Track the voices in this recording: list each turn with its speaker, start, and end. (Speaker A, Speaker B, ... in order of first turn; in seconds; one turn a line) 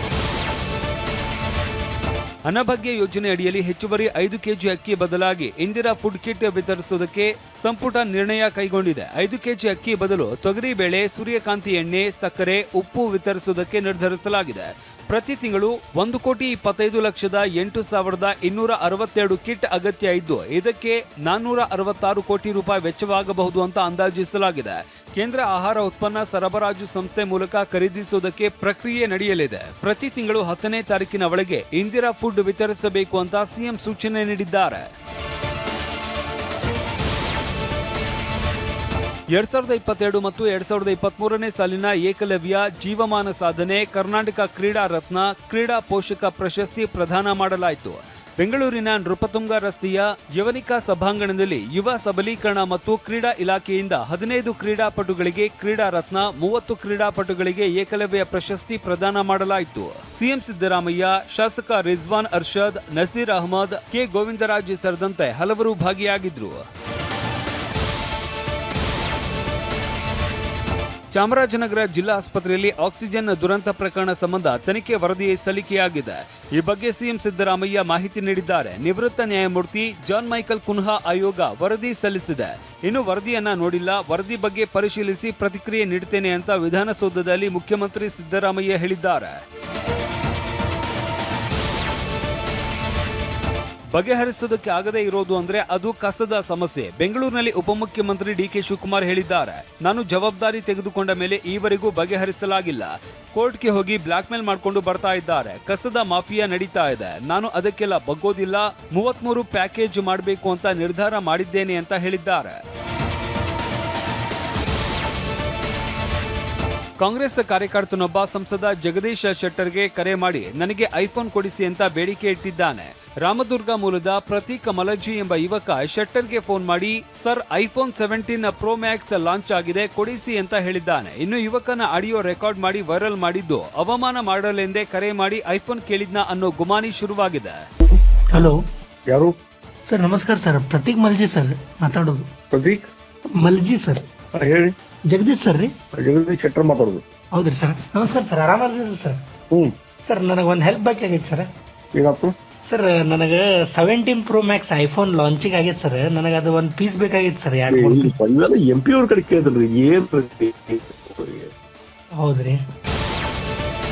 Speaker A: 2.4-34.9
Speaker A: 39.3-66.6
Speaker A: 71.1-89.4
Speaker A: 93.9-112.6
Speaker A: 117.0-137.6
Speaker B: 138.3-138.6
Speaker C: 139.1-139.3
Speaker B: 139.8-142.3
Speaker C: 142.5-142.9
Speaker B: 143.4-144.1
Speaker C: 144.3-144.7
Speaker B: 145.1-145.8
Speaker C: 146.0-147.0
Speaker B: 147.3-149.2
Speaker B: 150.1-151.5
Speaker C: 151.9-152.3
Speaker B: 152.7-158.1
Speaker C: 157.7-161.5
Speaker B: 162.2-162.6